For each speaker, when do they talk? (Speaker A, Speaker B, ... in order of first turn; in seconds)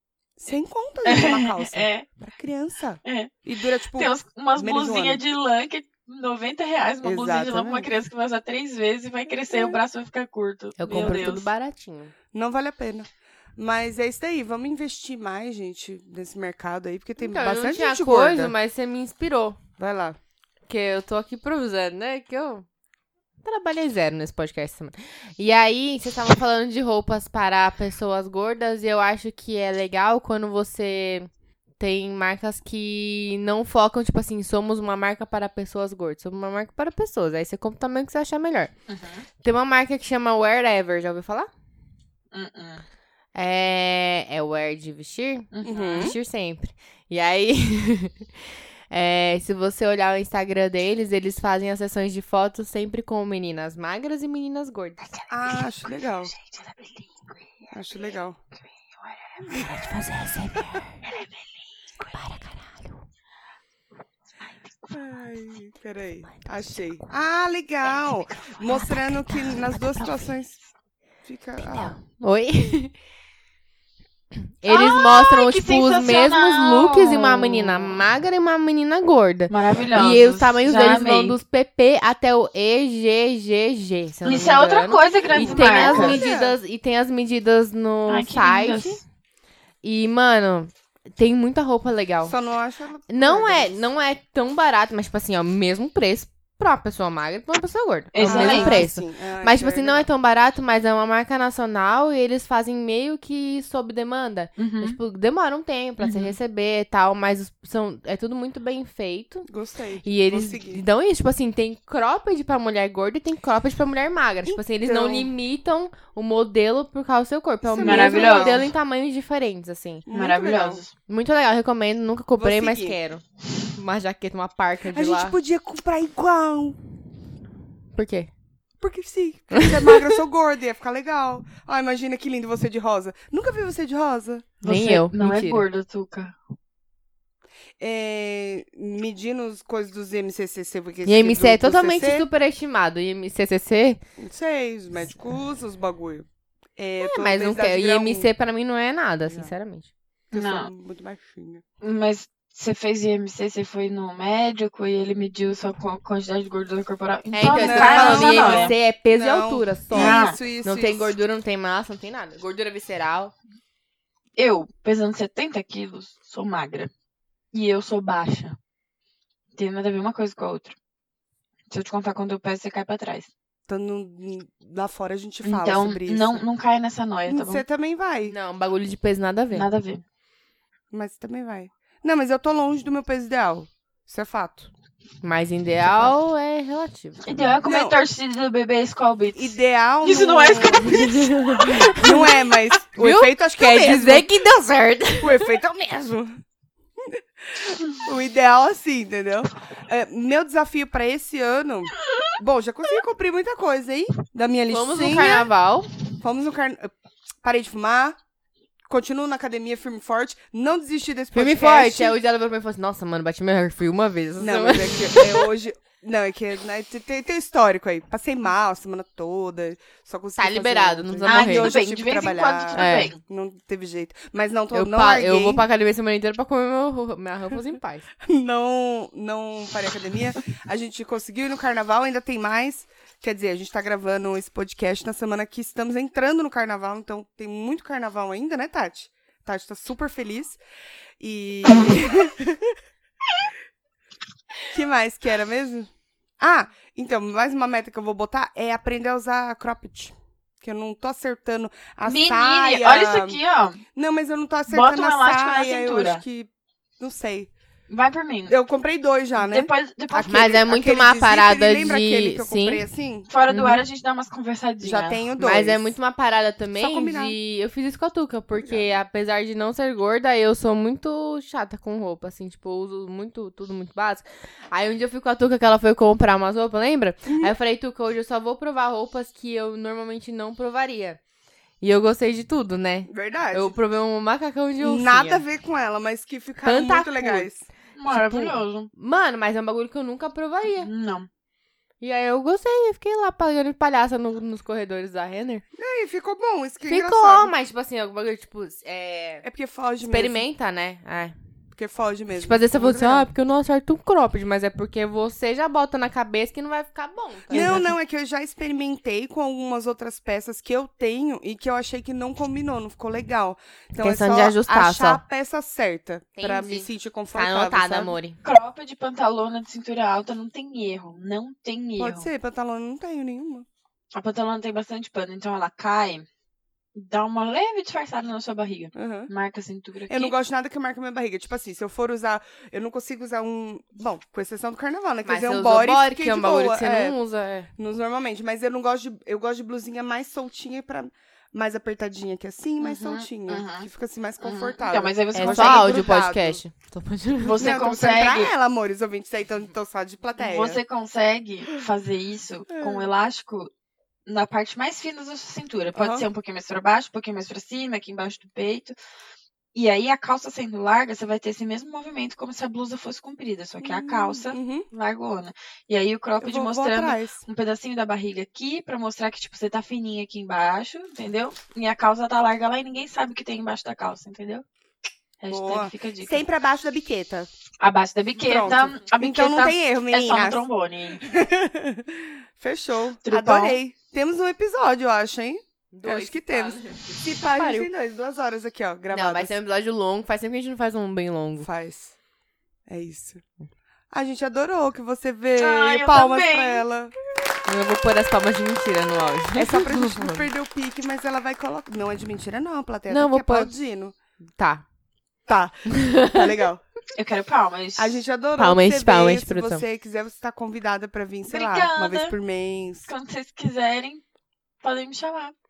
Speaker A: 0.4-5.2, 7.0-7.9, 9.5-9.8, 12.3-18.5, 19.8-20.2, 45.6-46.1, 55.3-56.3, 57.7-58.4, 64.9-70.6, 71.2-72.0, 85.3-86.6, 92.3-93.8, 98.2-100.0, 109.5-110.8, 114.4-115.3, 117.6-118.7, 120.0-120.8, 122.4-123.0, 124.9-126.8, 128.8-134.5, 137.8-142.3, 144.2-148.3, 149.2-149.5, 150.3-151.6, 157.5-161.2, 173.7-176.4, 177.3-178.3, 180.9-184.7, 187.6-188.0, 189.3-191.4, 191.9-194.3, 195.2-196.4, 197.0-205.5, 206.2-208.2, 208.9-212.2, 214.4-225.6, 228.2-240.6, 241.2-242.7, 244.7-253.4, 253.9-257.5, 258.5-263.3, 264.8-265.9, 266.7-267.3, 268.6-268.9, 277.3-277.5, 283.1-283.8, 284.8-287.6, 295.8-297.5, 299.4-300.4, 301.7-303.3, 307.5-318.1, 322.0-323.6, 328.9-329.3, 330.1-337.2, 337.8-346.6, 347.5-350.8, 352.8-353.1, 355.9-356.3, 363.8-364.9, 366.4-367.4, 375.5-377.5, 378.4-380.6, 381.2-389.5, 391.6-392.1, 392.9-393.4, 394.1-397.1, 399.6-404.1, 405.5-406.8, 408.0-413.1
Speaker B: 1.0-2.0, 3.0-11.5, 38.9-39.2, 42.3-42.8, 45.5-46.1, 55.2-57.7, 59.0-59.6, 61.0-61.3, 74.7-78.0, 79.5-81.4, 84.2-86.2, 88.1-89.0, 98.1-98.8, 104.6-105.0, 106.0-106.3, 117.8-118.7, 120.1-120.9, 134.6-136.3, 150.3-150.7, 151.8-158.7, 159.9-160.4, 164.3-166.9, 167.5-168.6, 169.5-170.7, 171.7-173.3, 175.4-177.6, 179.5-180.0, 187.2-192.2, 221.2-223.2, 252.1-253.8, 254.7-256.2, 257.9-258.5, 259.4-260.6, 263.3-265.2, 287.9-288.9, 290.8-291.3, 307.5-307.8, 318.4-322.3, 324.1-326.2, 326.9-330.3, 342.8-343.9, 344.4-346.1, 347.4-348.5, 350.4-353.7, 354.2-358.9, 359.7-374.6, 375.4-376.4, 377.8-381.2, 383.2-383.8, 395.6-396.8, 407.1-408.2, 411.5-412.3, 413.1-414.2, 414.8-415.5
Speaker C: 10.8-12.1, 17.2-19.6, 20.7-22.6, 23.4-31.3, 31.8-38.7, 39.4-41.5, 43.3-48.2, 48.9-55.0, 59.5-61.0, 62.0-63.0, 69.9-70.1, 71.6-72.9, 74.6-89.0, 89.8-92.3, 93.1-109.5, 110.0-120.0, 121.1-123.2, 123.7-125.4, 127.9-128.3, 129.5-130.1, 134.6-135.7, 141.0-144.0, 147.1-149.9, 157.3-163.3, 178.3-179.7, 185.2-187.6, 190.9-192.1, 193.0-195.4, 204.7-205.9, 211.3-215.5, 220.3-221.7, 222.7-223.1, 224.7-228.1, 260.3-262.8, 263.5-263.8, 265.4-281.2, 281.8-285.4, 286.6-287.5, 288.1-290.9, 292.0-295.6, 296.9-299.4, 300.0-301.3, 302.3-307.9, 314.0-315.2, 316.4-318.4, 335.2-337.7, 345.3-347.6, 385.9-387.9, 389.1-391.7, 397.6-400.4, 403.1-403.7, 404.6-404.8, 405.9-406.5, 408.6-409.8